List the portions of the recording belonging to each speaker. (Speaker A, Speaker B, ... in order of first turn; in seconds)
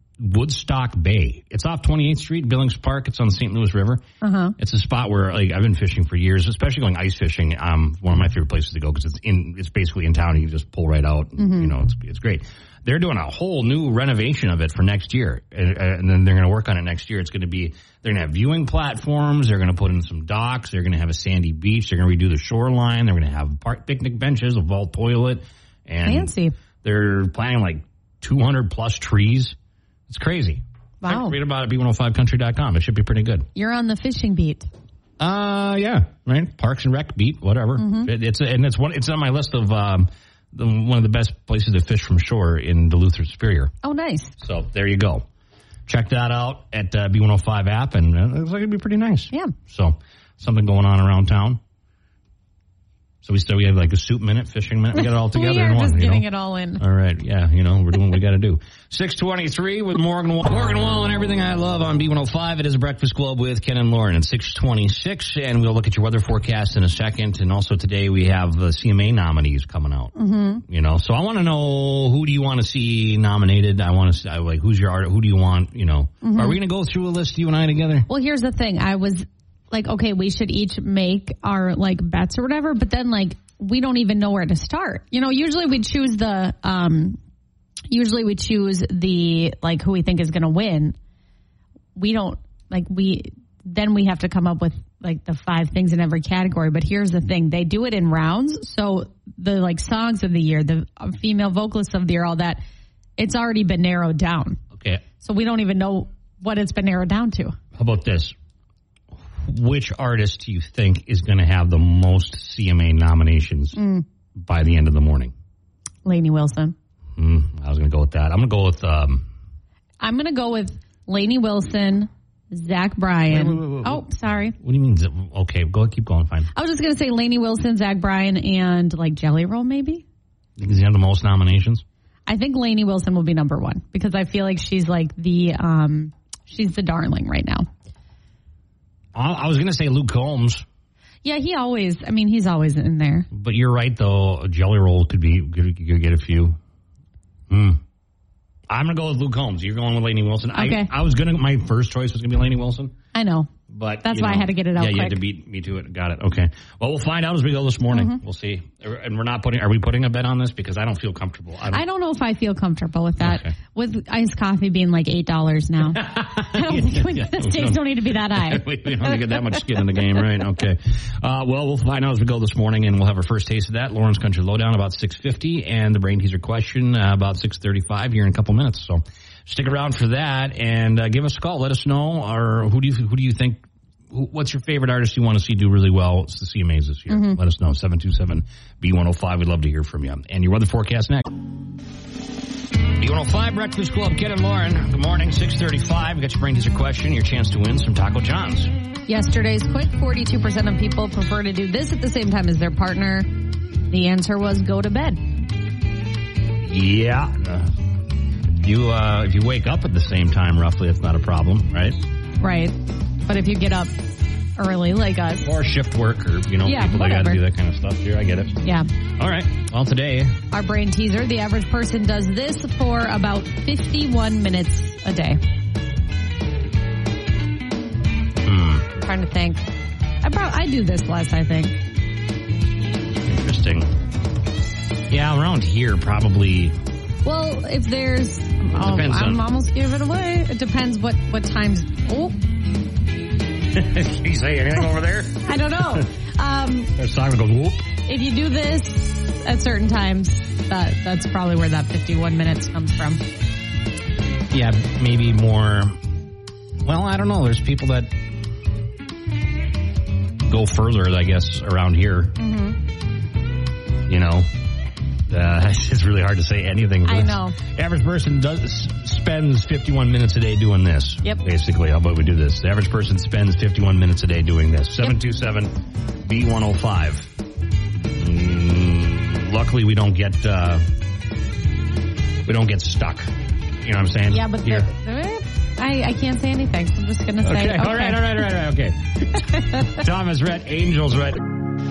Speaker A: 0.2-4.0, 4.6-26.3, 26.8-29.6, 30.1-33.5, 35.2-43.7, 44.4-45.2, 45.9-51.6, 53.2-56.2, 56.8-78.1, 104.7-105.0, 107.8-108.3, 109.5-113.8, 114.4-115.3, 117.2-119.2, 123.3-126.5, 130.6-131.8, 139.1-140.6, 143.3-146.6, 147.5-147.8, 148.7-152.9, 153.7-161.8, 163.2-163.5, 166.0-191.3, 193.0-198.7, 206.6-207.7, 208.6-212.0, 215.4-218.6, 219.2-220.4, 228.4-228.9, 233.2-233.9, 235.1-236.7, 238.7-239.4, 243.7-246.0, 246.9-247.9, 254.5-256.0, 256.8-258.1, 260.4-262.4, 264.1-264.5, 265.3-275.7, 276.2-277.3, 278.0-280.9, 282.4-283.3, 283.8-284.9, 287.4-291.5
Speaker B: 4.2-4.5, 11.4-11.7, 26.0-26.5, 31.0-31.4, 33.5-34.7, 37.8-38.1, 43.8-44.4, 54.9-56.8, 70.1-70.6, 76.2-76.6, 78.1-87.2, 87.9-91.0, 92.0-102.6, 103.2-104.6, 105.2-107.6, 113.7-114.0, 116.0-116.7, 120.0-124.5, 126.5-130.0, 132.2-137.7, 141.2-143.3, 150.5-150.9, 153.1-153.5, 154.0-155.2, 157.9-158.2, 161.7-169.1, 187.1-187.4, 199.1-203.3, 203.9-205.2, 212.4-213.9, 214.6-215.5, 216.6-217.4, 220.5-225.4, 229.0-229.6, 230.2-231.7, 237.2-242.4, 245.4-246.9, 248.1-253.2, 262.4-262.8, 267.0-267.6, 284.3-288.4, 289.6-289.8